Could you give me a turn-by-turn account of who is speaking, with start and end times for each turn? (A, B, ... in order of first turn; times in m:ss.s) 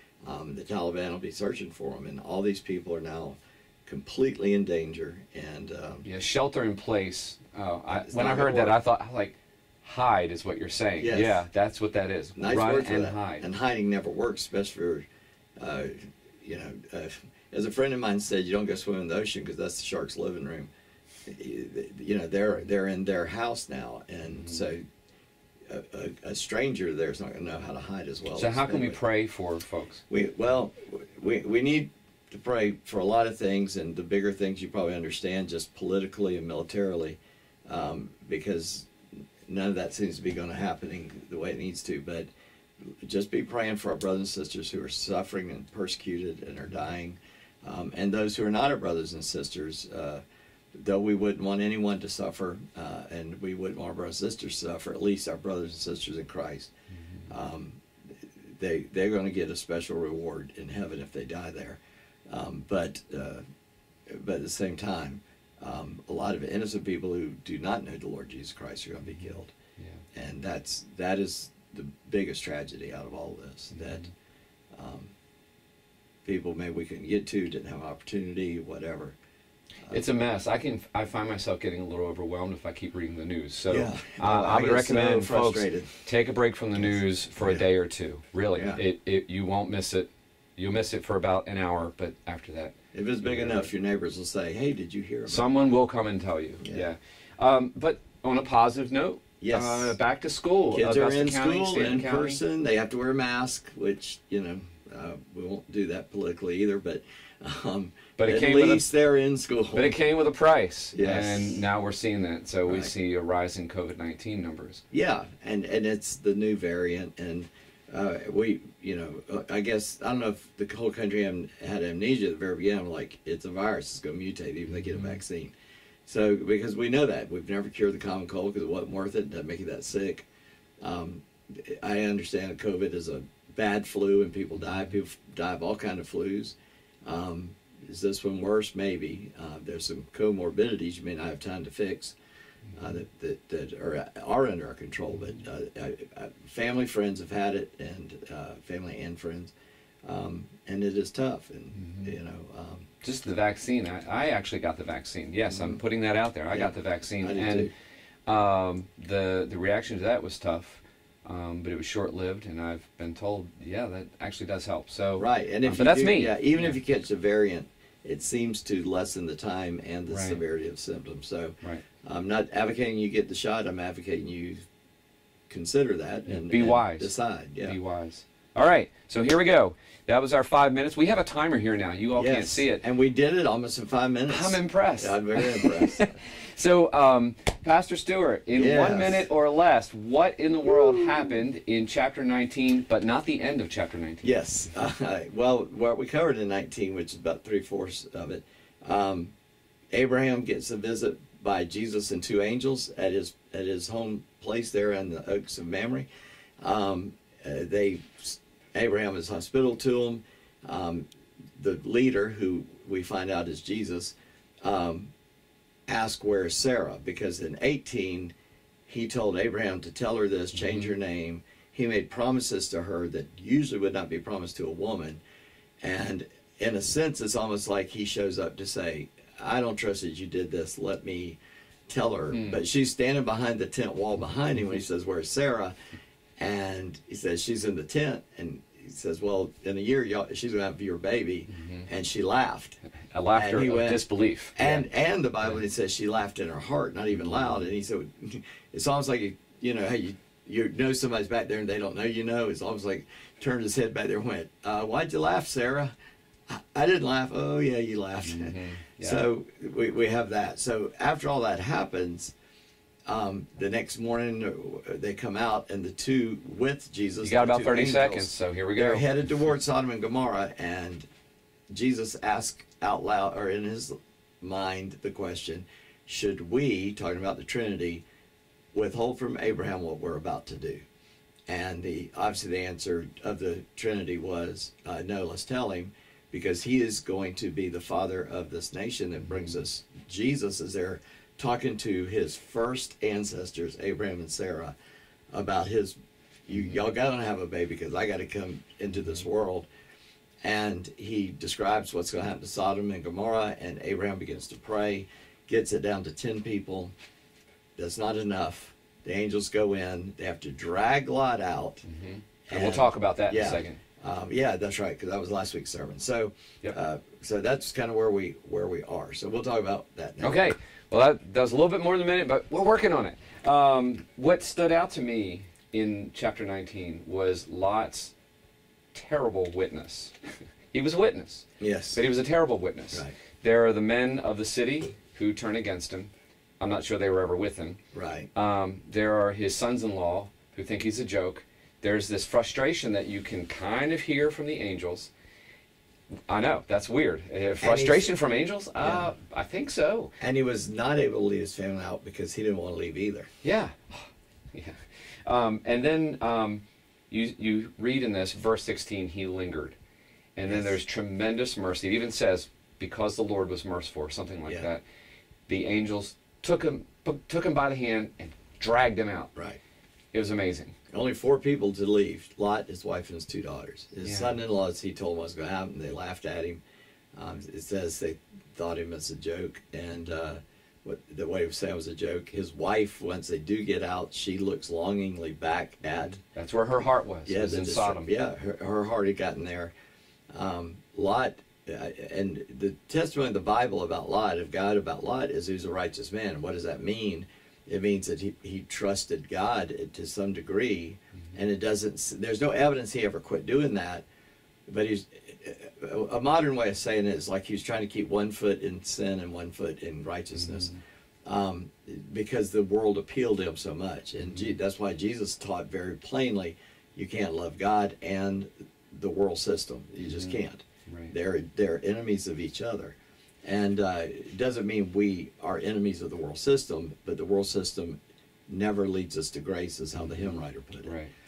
0:00.2-0:06.0 A
0:06.0-0:13.4 B
0:07.9-0:08.8 A
0:11.0-0:11.4 A
0:12.3-0:15.0 A
0:15.6-0:20.7 A
0:21.3-0:24.8 A
0:24.3-0:24.6 B
0:25.7-0:29.0 A
0:28.4-0:30.0 B
0:30.1-0:38.9 A
0:39.5-0:42.3 A
0:43.0-0:50.2 A
0:50.7-0:56.7 A
0:57.3-1:03.4 A
1:04.1-1:09.5 A
1:10.1-1:14.1 A
1:13.7-1:14.1 B
1:14.7-1:15.1 A
1:16.2-1:19.2 A
1:19.9-1:33.7 B
1:23.7-1:26.0 A
1:26.7-1:27.7 A
1:28.5-1:28.8 A
1:32.9-1:35.5 A
1:35.2-1:42.4 B
1:36.6-1:36.9 A
1:39.4-1:40.0 A
1:40.7-1:50.0 A
1:48.2-1:48.9 B
1:49.7-1:54.8 B
1:50.9-1:51.6 A
1:52.6-1:52.9 A
1:54.9-2:05.5 A
2:04.7-2:05.2 B
2:06.0-2:10.2 A
2:10.8-2:16.5 A
2:17.0-2:22.1 A
2:22.7-2:29.5 A
2:30.0-2:32.9 A
2:31.8-2:32.1 B
2:33.0-2:37.7 B
2:35.5-2:35.8 A
2:36.5-2:37.7 A
2:38.3-2:46.8 B
2:45.2-2:54.6 A
2:50.1-2:50.4 B
2:55.5-2:57.8 A
2:56.2-2:57.1 B
2:57.6-3:02.8 B
3:02.1-3:06.2 A
3:04.3-3:14.3 B
3:08.5-3:09.3 A
3:14.2-3:19.3 A
3:19.9-3:26.1 A
3:26.6-3:35.1 A
3:35.9-3:38.3 A
3:38.9-3:45.2 A
3:40.5-3:40.9 B
3:45.8-3:55.7 A
3:52.3-3:52.6 B
3:56.4-4:02.8 A
4:01.5-4:01.9 B
4:03.1-4:04.9 B
4:03.3-4:04.0 A
4:04.6-4:15.9 A
4:07.1-4:07.6 B
4:16.5-4:22.3 A
4:18.2-4:19.2 B
4:23.1-4:31.1 A
4:27.2-4:29.0 B
4:31.7-4:38.0 A
4:38.7-4:40.8 A
4:41.5-4:54.7 A
4:55.3-4:56.0 A
4:56.5-4:59.6 A
5:00.4-5:06.9 A
5:07.8-5:11.9 A
5:11.8-5:13.8 B
5:12.5-5:20.5 A
5:20.2-5:28.1 B
5:28.9-5:30.2 B
5:30.7-5:37.8 B
5:31.6-5:32.0 A
5:37.9-5:38.3 A
5:38.3-5:45.1 B
5:46.3-5:50.1 B
5:47.6-5:48.2 A
5:48.8-5:49.1 A
5:50.2-5:53.3 A
5:53.4-5:59.8 B
6:00.4-6:04.8 B
6:00.5-6:00.8 A
6:05.5-6:09.3 B
6:10.1-6:10.7 B
6:10.9-6:16.6 A
6:14.0-6:14.4 B
6:17.2-6:26.2 A
6:25.9-6:28.1 B
6:27.2-6:29.7 A
6:30.3-6:44.0 A
6:44.7-6:50.7 A
6:50.3-6:50.8 B
6:51.2-7:10.9 A
6:54.2-6:54.6 B
7:00.0-7:01.1 B
7:10.0-7:11.1 B